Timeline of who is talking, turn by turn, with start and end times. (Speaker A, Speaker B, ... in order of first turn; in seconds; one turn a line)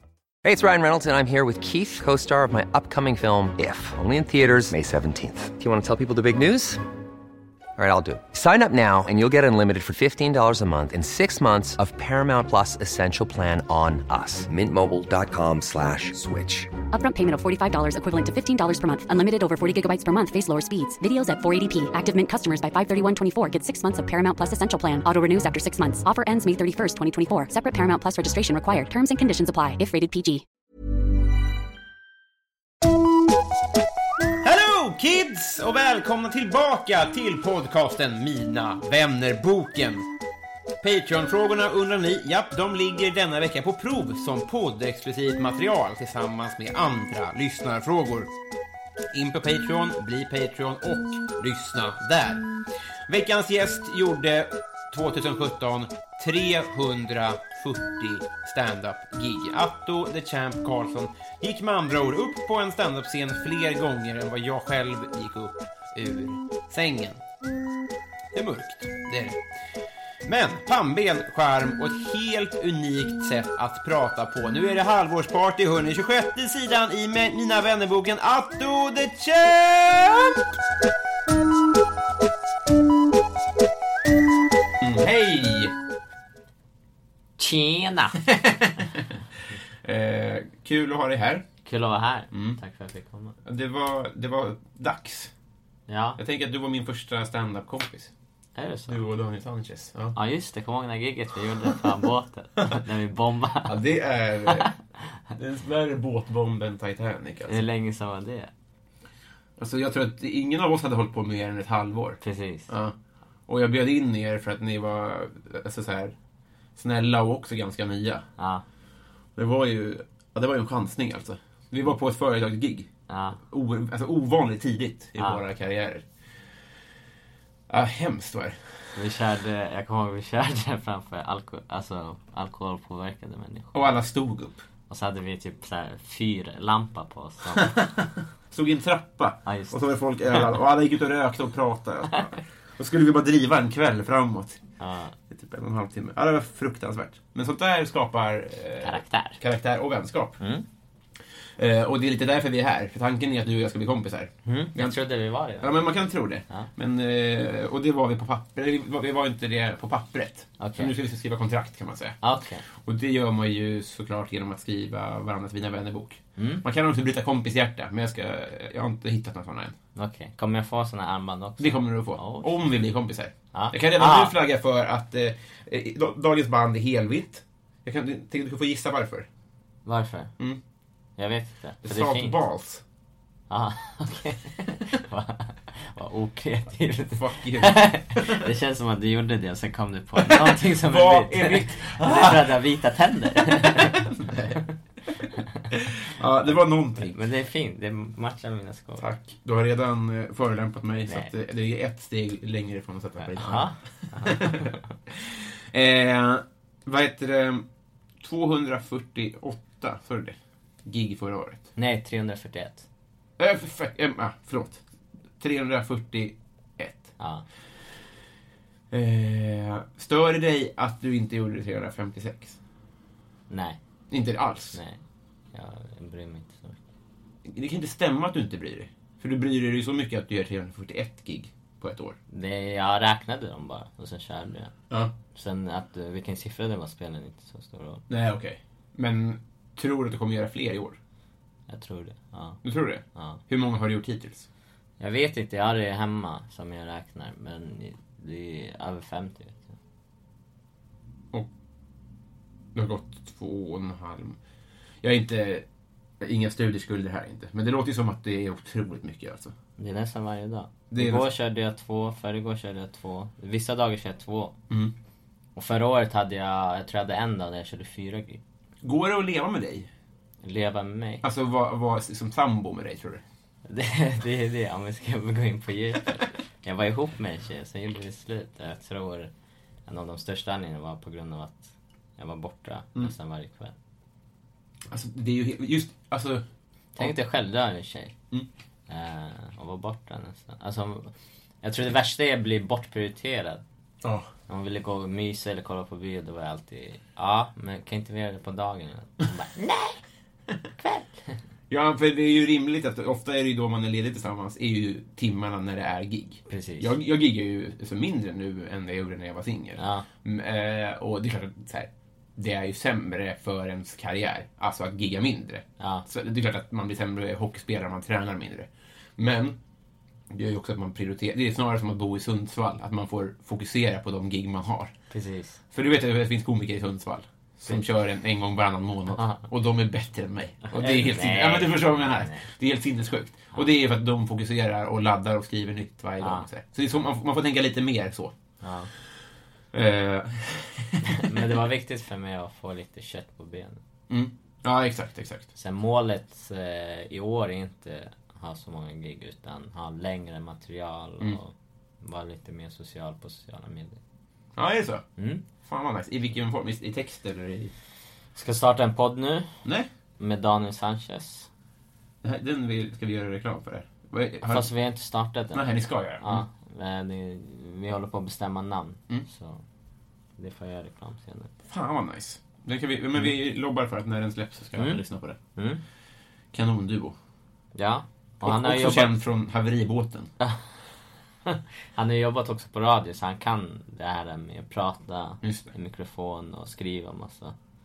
Speaker A: 0.4-6.8
Speaker A: 7.8-16.7
Speaker B: 16.9-30.4
Speaker C: 34.4-40.1
Speaker C: 40.8-48.3
Speaker C: 49.1-52.5
Speaker C: 53.1-67.2
Speaker C: 68.3-69.4
Speaker C: 70.2-80.4
Speaker C: 84.8-85.7
Speaker D: 87.4-88.2
Speaker C: 88.2-89.1
Speaker C: 89.8-91.5
Speaker D: 91.7-93.3
Speaker C: 92.3-92.6
Speaker C: 93.5-95.3
Speaker D: 95.9-96.2
Speaker C: 96.2-98.1
Speaker D: 98.6-99.0
Speaker C: 98.9-100.2
Speaker D: 100.2-103.8
Speaker C: 103.7-104.7
Speaker D: 104.5-104.7
Speaker C: 105.3-107.6
Speaker D: 107.5-108.5
Speaker C: 109.6-113.0
Speaker D: 112.2-112.7
Speaker C: 113.5-116.2
Speaker C: 116.8-118.2
Speaker D: 118.4-118.6
Speaker C: 119.4-126.1
Speaker D: 123.1-123.4
Speaker D: 125.2-125.4
Speaker C: 127.7-129.0
Speaker D: 129.0-133.9
Speaker C: 133.7-134.7
Speaker D: 134.9-137.7
Speaker C: 137.6-144.6
Speaker D: 139.5-139.8
Speaker D: 144.8-145.2
Speaker C: 145.3-150.4
Speaker D: 148.8-149.4
Speaker D: 150.4-150.7
Speaker C: 151.6-155.0
Speaker D: 154.4-155.9
Speaker C: 155.6-162.2
Speaker D: 160.6-160.9
Speaker D: 162.2-162.6
Speaker C: 162.7-169.8
Speaker D: 166.4-166.7
Speaker D: 169.9-172.6
Speaker C: 171.6-179.3
Speaker D: 173.5-174.3
Speaker D: 179.9-180.3
Speaker D: 181.2-182.4
Speaker C: 181.8-182.8
Speaker D: 183.5-194.1
Speaker C: 187.1-188.4
Speaker C: 190.2-192.6
Speaker C: 193.6-194.6
Speaker C: 195.2-197.2
Speaker D: 197.0-199.1
Speaker C: 199.0-207.7
Speaker D: 203.2-204.9
Speaker C: 208.2-211.7
Speaker D: 211.8-212.9
Speaker C: 213.4-214.8
Speaker C: 215.4-217.1
Speaker D: 217.2-217.4
Speaker C: 218.9-222.6
Speaker D: 223.5-223.8
Speaker C: 224.1-224.8
Speaker D: 224.7-225.0
Speaker D: 225.5-226.8
Speaker C: 227.5-232.2
Speaker D: 232.3-234.7
Speaker D: 235.3-238.0
Speaker C: 238.1-241.0
Speaker D: 241.7-242.6
Speaker C: 242.6-244.5
Speaker D: 243.2-243.4
Speaker D: 245.0-249.8
Speaker C: 252.8-254.4
Speaker C: 255.0-255.7
Speaker C: 256.2-259.5
Speaker D: 259.8-264.6
Speaker C: 260.9-261.3
Speaker D: 265.6-268.4
Speaker C: 268.8-269.9
Speaker D: 270.4-271.2
Speaker C: 271.2-273.2
Speaker D: 273.7-279.3
Speaker D: 279.9-283.8
Speaker C: 284.9-286.4
Speaker D: 287.0-288.2
Speaker D: 288.9-293.6
Speaker C: 294.0-294.3
Speaker D: 294.5-300.0
Speaker D: 300.8-301.4
Speaker C: 301.7-319.6
Speaker D: 306.5-306.9
Speaker D: 309.8-310.1
Speaker D: 315.8-316.1
Speaker C: 320.3-324.9
Speaker D: 325.1-325.6
Speaker C: 325.7-338.3
Speaker D: 329.1-329.4
Speaker D: 330.7-332.5
Speaker D: 336.2-336.5
Speaker D: 338.6-338.9
Speaker C: 339.7-341.4
Speaker D: 341.1-343.8
Speaker C: 344.1-345.5
Speaker D: 345.6-354.0
Speaker C: 354.6-355.0
Speaker D: 355.2-355.4
Speaker C: 355.6-357.7
Speaker D: 358.4-359.6
Speaker D: 360.2-361.5
Speaker C: 362.2-364.7
Speaker D: 364.5-369.6
Speaker C: 365.5-366.4
Speaker D: 370.4-371.5
Speaker C: 371.6-375.4
Speaker D: 374.8-375.0
Speaker D: 375.6-375.8
Speaker C: 376.5-377.2
Speaker D: 377.8-379.1
Speaker C: 378.4-380.3
Speaker D: 381.5-387.6
Speaker C: 385.4-385.7